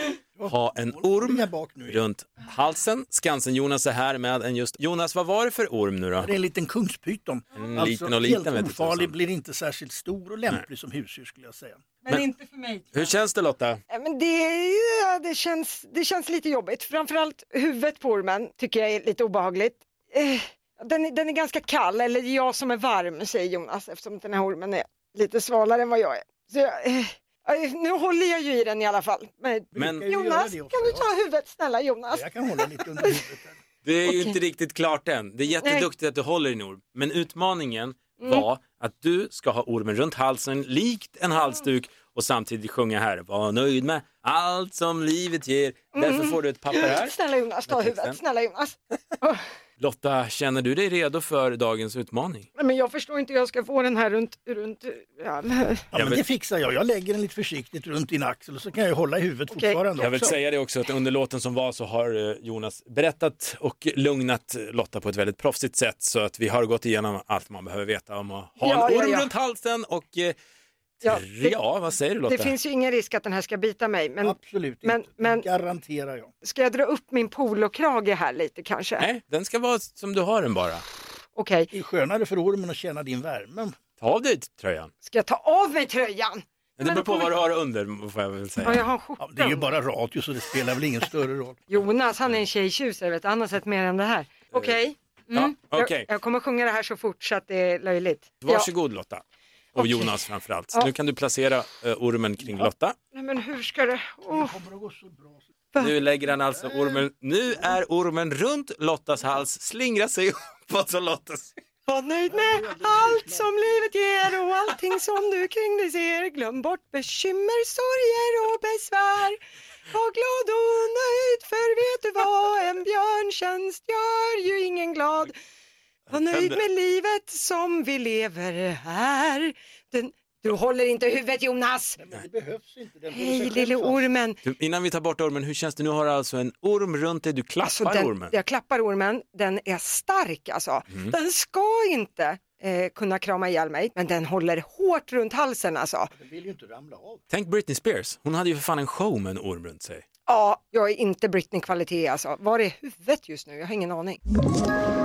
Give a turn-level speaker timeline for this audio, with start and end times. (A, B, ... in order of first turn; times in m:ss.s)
0:00.4-0:02.0 A
0:00.4-0:06.3 B
0:06.2-0:11.8 A
0:07.6-0:09.1 B
0:12.0-0:13.1 C
0:12.9-0:13.8 B
0:13.9-0:33.2 C
0:29.7-0:31.1 A
0:29.8-0:30.0 B
0:32.1-0:33.6 A
0:33.8-0:47.1 B
0:34.0-0:34.4 C
0:46.0-0:49.4 C
0:47.7-0:48.2 B
0:49.8-0:52.5 B
0:52.6-0:55.9 C
0:55.9-1:00.4 A
0:55.9-0:56.2 B
0:59.5-0:59.8 C
1:00.0-1:10.3 B
1:08.6-1:09.3 C
1:11.0-1:11.6 C
1:11.0-1:12.5 B
1:12.3-1:15.5 C
1:14.2-1:16.3 A
1:16.4-1:19.0 C
1:19.0-1:20.8 B
1:21.4-1:21.7 C
1:21.7-1:23.8 A
1:24.0-1:24.9 B
1:25.0-1:27.3 C
1:26.8-1:28.8 B
1:28.6-1:29.7 C
1:29.2-1:31.6 A
1:31.7-1:38.7 C
1:35.3-1:36.1 B
1:38.4-1:39.2 B
1:39.7-1:42.9 B
1:39.8-1:40.1 C
1:43.1-1:44.6 C
1:44.3-1:45.4 A
1:45.8-1:51.5 B
1:51.9-1:59.4 C
1:52.3-1:53.7 A
1:59.9-2:05.3 C
2:06.1-2:12.0 C
2:06.1-2:06.6 B
2:12.0-2:14.1 A
2:13.1-2:14.4 C
2:14.4-2:18.3 B
2:17.6-2:26.1 C
2:26.2-2:27.2 A
2:27.3-2:30.0 B
2:30.3-2:34.2 C